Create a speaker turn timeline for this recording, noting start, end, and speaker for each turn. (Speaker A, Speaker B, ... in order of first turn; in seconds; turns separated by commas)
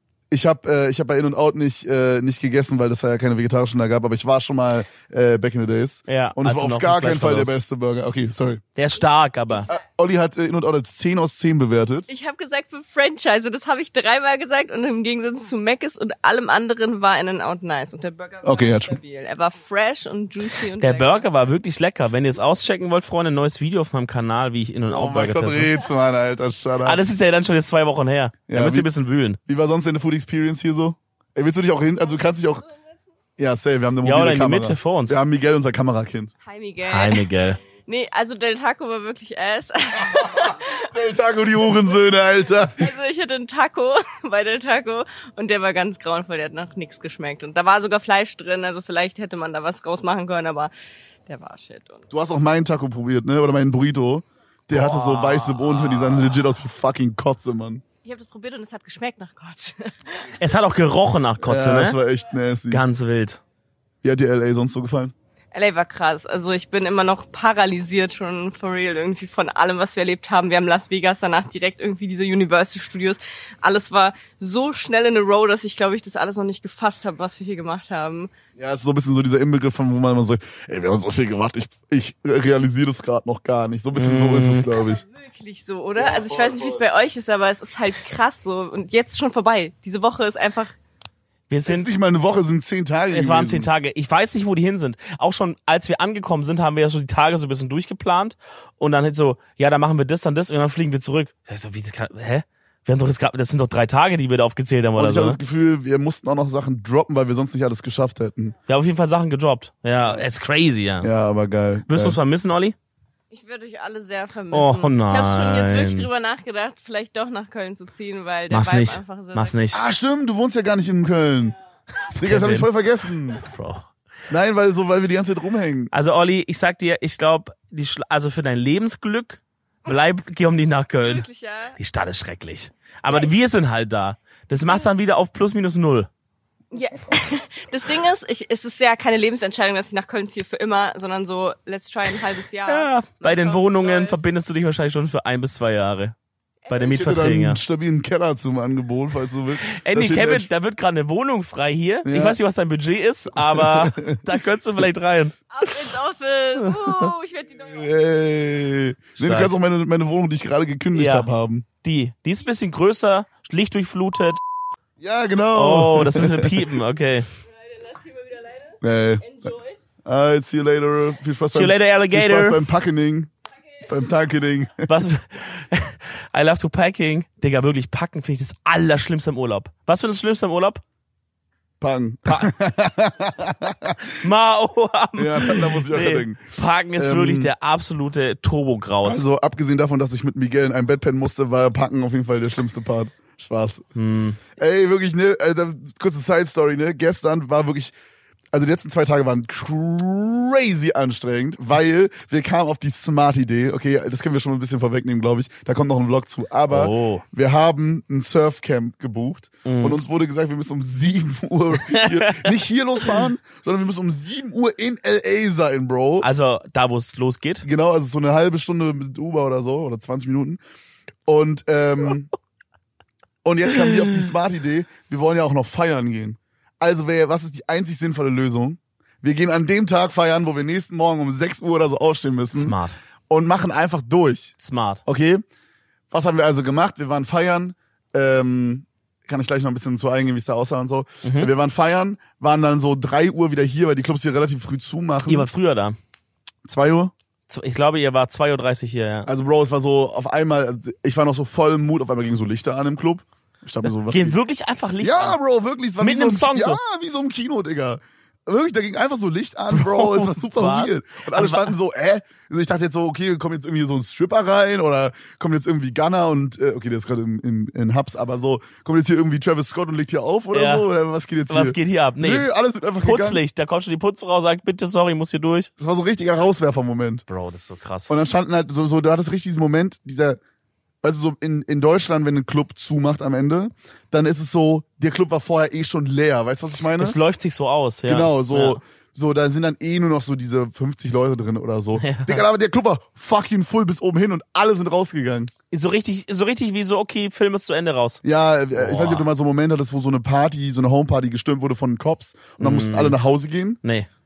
Speaker A: 0.3-8.6, Speaker B: 6.1-7.5, Speaker B: 8.8-9.7, Speaker A: 9.7-12.1, Speaker C: 12.1-21.2, Speaker A: 18.4-19.0, Speaker B: 20.8-25.7, Speaker A: 24.9-27.0, Speaker B: 26.8-29.4, Speaker A: 28.5-28.9, Speaker A: 29.4-32.6, Speaker A: 33.4-36.3, Speaker B: 34.0-35.2, Speaker C: 36.4-37.2, Speaker B: 36.9-37.6, Speaker C: 37.8-40.8, Speaker A: 40.1-42.9, Speaker C: 42.6-50.7, Speaker C: 51.3-52.0, Speaker A: 52.1-57.8, Speaker B: 54.7-56.5, Speaker C: 58.0-60.3, Speaker B: 60.4-62.0, Speaker A: 61.4-62.8, Speaker B: 62.7-63.4, Speaker A: 64.0-65.1, Speaker C: 65.5-78.3, Speaker A: 78.6-85.0, Speaker B: 83.9-84.7, Speaker C: 84.7-90.7, Speaker A: 86.0-86.8, Speaker B: 91.5-91.9, Speaker A: 91.7-93.7, Speaker B: 93.1-105.4, Speaker A: 105.0-108.5, Speaker B: 108.7-111.1, Speaker A: 111.0-112.2, Speaker B: 111.9-112.8, Speaker C: 113.3-119.6, Speaker B: 114.5-116.1, Speaker B: 118.5-119.8, Speaker A: 119.7-121.5, Speaker B: 122.1-122.7, Speaker A: 122.1-123.4, Speaker B: 123.3-123.8, Speaker A: 124.3-125.9, Speaker B: 125.9-136.1, Speaker C: 131.0-131.8, Speaker C: 134.6-134.9, Speaker C: 136.7-144.2, Speaker B: 142.7-146.1, Speaker C: 146.6-147.1, Speaker B: 146.7-147.6, Speaker A: 146.8-150.5, Speaker B: 149.7-155.8, Speaker A: 152.0-152.4, Speaker A: 153.4-154.2, Speaker C: 155.5-157.9, Speaker B: 156.6-157.1, Speaker A: 157.7-161.7, Speaker B: 159.2-159.5, Speaker B: 160.9-161.3, Speaker B: 161.8-164.4, Speaker A: 165.0-166.7, Speaker B: 165.5-167.3, Speaker C: 167.6-169.8, Speaker A: 168.8-169.5, Speaker A: 170.0-173.3, Speaker B: 171.5-172.6, Speaker A: 173.8-174.9, Speaker B: 174.9-180.8, Speaker A: 181.8-184.2, Speaker B: 182.2-182.5, Speaker B: 184.2-189.2, Speaker A: 185.2-187.5, Speaker A: 189.0-193.8, Speaker B: 193.9-194.4, Speaker A: 194.6-197.9, Speaker A: 198.5-216.3, Speaker B: 206.7-207.2, Speaker B: 209.6-210.0, Speaker B: 211.9-212.5, Speaker B: 216.2-217.7, Speaker A: 217.6-220.6, Speaker A: 221.2-222.3, Speaker A: 223.4-232.8, Speaker B: 232.5-233.0, Speaker A: 233.3-234.5, Speaker B: 234.6-235.0, Speaker A: 235.1-235.4, Speaker A: 236.1-245.5, Speaker B: 241.2-241.5, Speaker B: 245.3-246.0, Speaker A: 246.7-247.1, Speaker B: 247.5-249.3, Speaker A: 249.2-254.4, Speaker B: 253.8-255.4, Speaker A: 255.0-273.4, Speaker B: 256.0-256.8, Speaker B: 259.7-261.7, Speaker B: 270.5-270.9, Speaker B: 271.5-272.5, Speaker B: 273.0-275.7, Speaker A: 275.8-277.2, Speaker B: 277.3-278.1, Speaker A: 278.1-280.4, Speaker A: 281.0-287.2, Speaker B: 287.0-288.8, Speaker A: 288.1-295.5, Speaker B: 292.0-292.4, Speaker B: 295.7-298.2, Speaker A: 298.2-303.8, Speaker B: 298.7-299.3, Speaker B: 302.6-303.2, Speaker B: 303.8-304.1